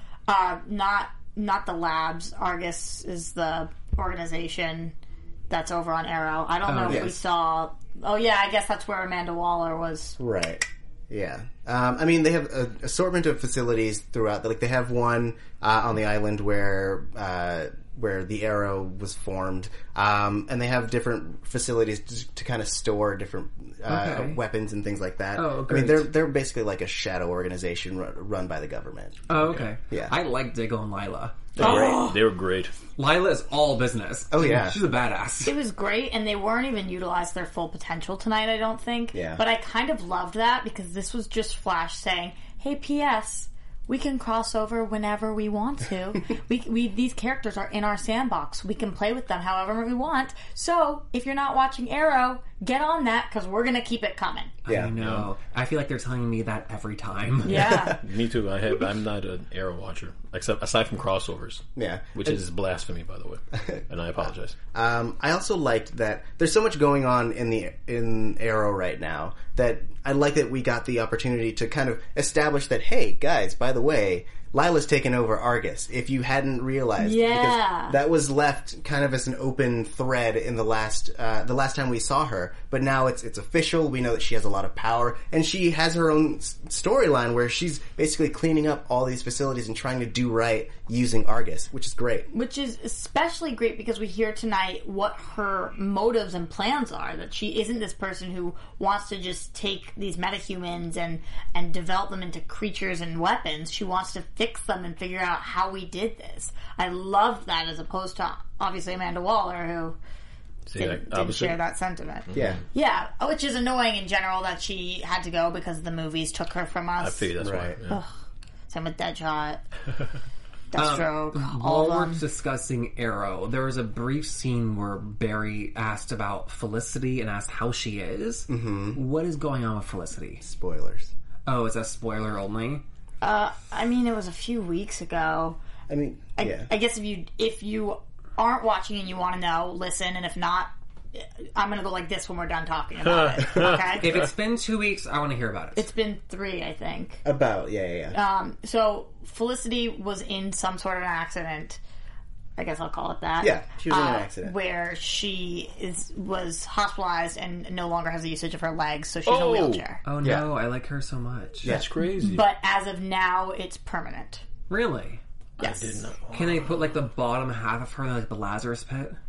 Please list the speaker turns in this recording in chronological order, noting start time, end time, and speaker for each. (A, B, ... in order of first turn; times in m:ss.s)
0:00.3-0:04.9 A
0:05.5-0:10.2 A
0:06.6-0:07.1 B
0:06.8-0:07.2 C
0:10.2-0:29.2 C
0:23.8-0:24.4 B
0:25.4-0:26.1 B
0:29.3-0:31.6 B
0:29.4-0:29.7 D
0:31.5-0:32.7 D
0:31.6-0:32.1 C
0:31.6-0:32.2 A
0:33.0-0:35.5 B
0:34.3-0:34.8 C
0:35.4-0:54.5 A
0:39.1-0:39.4 C
0:54.6-0:57.8 B
0:54.7-0:54.9 C
0:55.0-0:55.2 D
0:57.4-0:58.0 A
0:57.7-1:04.5 D
1:01.8-1:02.4 C
1:04.7-1:32.3 C
1:17.0-1:18.0 A
1:32.3-1:50.0 A
1:50.7-1:51.6 D
1:50.8-1:57.3 A
1:52.3-1:52.6 D
1:52.3-1:52.6 C
1:57.0-1:58.0 D
1:57.4-1:57.8 C
1:58.7-1:59.6 A
2:00.7-2:02.2 A
2:00.8-2:10.4 B
2:08.5-2:09.0 C
2:10.4-2:11.1 C
2:11.4-2:12.8 B
2:13.2-2:15.6 A
2:15.9-2:16.7 C
2:16.4-2:24.2 A
2:23.0-2:24.1 D
2:24.0-2:25.9 B
2:25.7-2:27.2 A
2:27.2-2:28.2 C
2:28.1-2:31.8 A
2:32.6-2:40.0 A
2:33.4-2:34.5 C
2:39.2-2:39.8 D
2:40.0-2:41.7 B
2:40.2-2:40.5 C
2:41.6-2:41.9 C
2:41.6-2:42.4 D
2:42.2-2:44.4 A
2:44.7-2:45.2 B
2:45.6-2:46.8 D
2:45.6-2:46.0 A
2:46.3-2:49.2 B